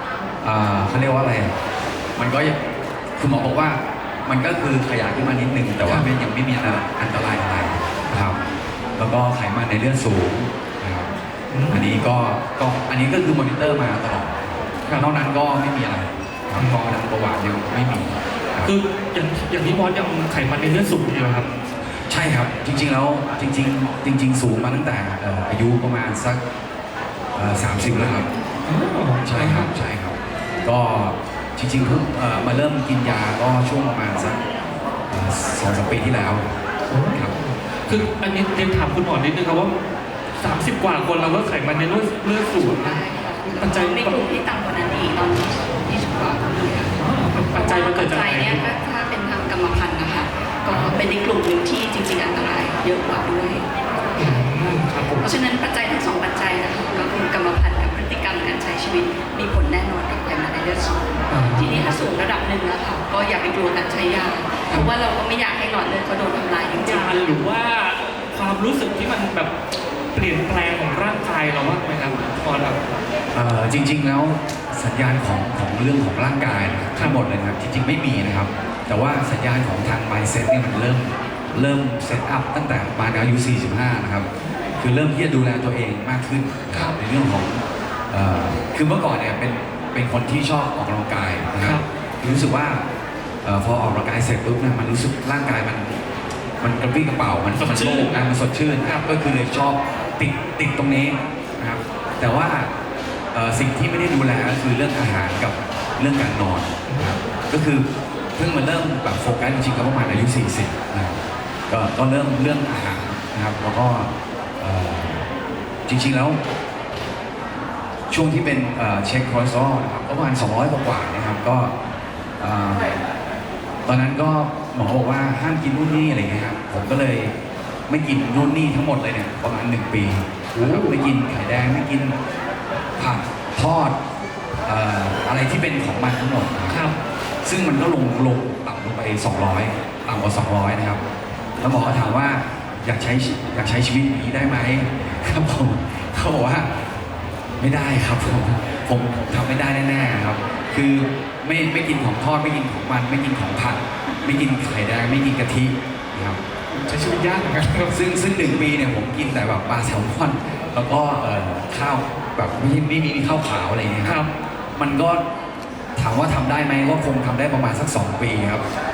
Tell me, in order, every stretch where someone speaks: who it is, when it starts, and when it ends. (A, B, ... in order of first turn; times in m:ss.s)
0:00.4-0:01.5 A
0:02.2-0:02.6 A
0:03.2-0:08.4 A
0:09.0-0:11.1 A
0:11.5-0:12.0 B
0:11.7-0:18.7 A
0:16.6-0:16.8 B
0:18.6-0:21.5 B
0:22.0-0:26.4 A
0:27.3-0:28.3 A
0:28.7-0:29.7 B
0:29.2-0:34.4 A
0:35.1-0:36.5 A
0:36.9-0:39.7 B
0:37.1-0:38.1 A
0:40.4-0:44.2 B
0:42.6-0:47.0 C
0:47.0-0:48.8 B
0:47.5-1:07.5 C
0:50.7-0:51.0 B
0:54.2-0:55.3 B
1:01.3-1:01.9 B
1:06.8-1:09.5 B
1:10.1-1:12.8 B
1:13.3-1:24.3 A
1:24.8-1:32.8 A
1:26.7-1:27.0 B
1:33.4-1:36.0 A
1:36.6-1:42.7 A
1:37.5-1:38.2 B
1:43.3-1:55.3 A
1:46.9-1:47.2 B
1:55.9-1:56.4 A
1:58.1-2:01.7 A
2:02.4-2:03.0 A
2:03.9-2:07.3 A
2:07.9-2:12.2 A
2:10.5-2:10.9 B
2:13.0-2:14.0 A
2:14.6-2:16.8 A
2:16.7-2:17.0 B
2:17.4-2:21.0 A
2:21.6-2:26.8 A
2:27.6-2:36.4 A
2:36.8-2:38.0 B
2:37.9-2:44.2 A
2:44.0-2:44.3 B
2:44.8-2:45.2 A
2:46.0-2:48.6 A